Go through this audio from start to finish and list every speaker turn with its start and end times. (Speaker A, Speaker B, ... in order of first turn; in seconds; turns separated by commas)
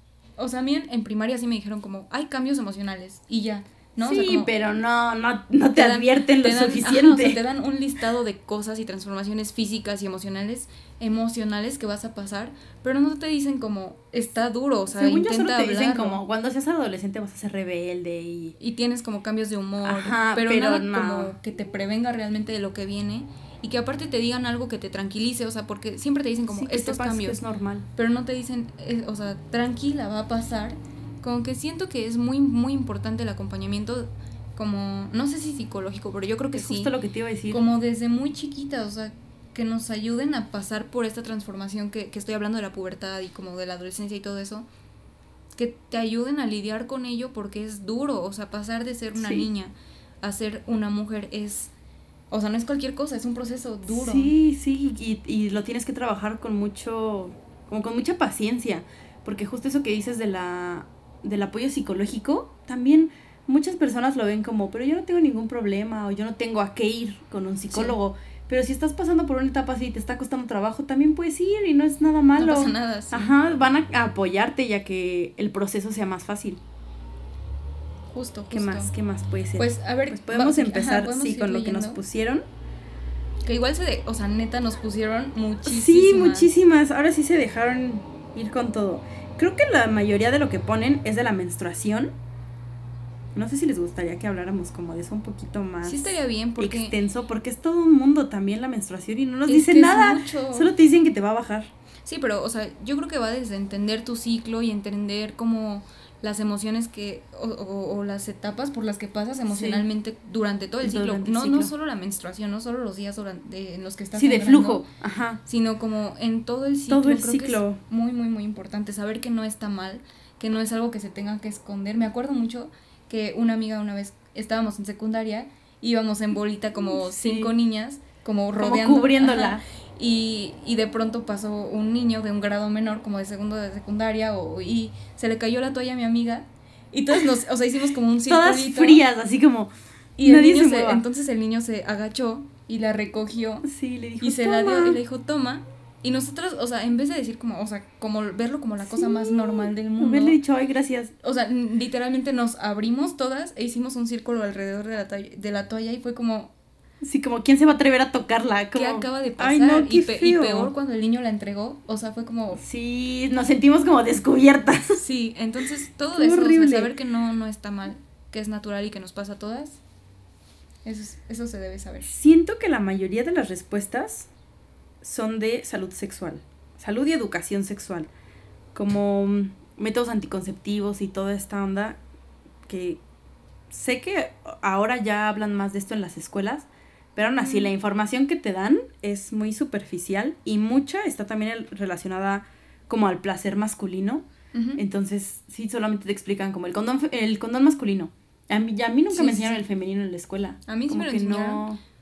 Speaker A: 0.4-4.5, Speaker B: 4.0-7.4, Speaker A: 5.7-16.2, Speaker B: 14.9-18.6, Speaker A: 18.6-27.4, Speaker B: 19.8-21.3, Speaker B: 26.5-27.9, Speaker A: 27.9-36.9, Speaker B: 36.5-37.6, Speaker A: 37.5-44.6, Speaker A: 45.5-51.7, Speaker B: 49.1-49.5, Speaker A: 52.3-54.3, Speaker B: 53.9-76.6, Speaker A: 67.7-68.0, Speaker A: 72.4-73.3, Speaker A: 78.1-78.9, Speaker B: 78.5-82.4, Speaker A: 79.6-82.0, Speaker A: 83.5-86.5, Speaker B: 85.6-92.1, Speaker B: 93.3-101.7, Speaker A: 95.8-96.9, Speaker A: 99.5-100.7, Speaker A: 102.0-114.8, Speaker B: 109.5-109.8, Speaker B: 110.8-111.7, Speaker B: 114.1-115.4, Speaker A: 115.5-139.0, Speaker B: 116.9-117.8, Speaker B: 126.9-127.5, Speaker B: 128.6-129.6, Speaker B: 138.2-141.0, Speaker A: 140.2-143.7, Speaker B: 143.6-145.0, Speaker A: 144.2-150.4, Speaker B: 148.8-151.1, Speaker A: 151.2-156.5, Speaker B: 157.0-160.7, Speaker A: 158.7-162.6, Speaker B: 162.6-165.0, Speaker A: 164.9-169.8, Speaker B: 166.1-166.9, Speaker A: 170.8-172.1, Speaker B: 172.1-174.3, Speaker B: 175.0-178.1, Speaker B: 178.7-182.0, Speaker B: 182.7-183.0, Speaker B: 183.7-194.2, Speaker A: 187.4-187.7, Speaker A: 194.5-194.8, Speaker B: 194.8-201.8, Speaker A: 199.1-199.6, Speaker A: 200.7-201.7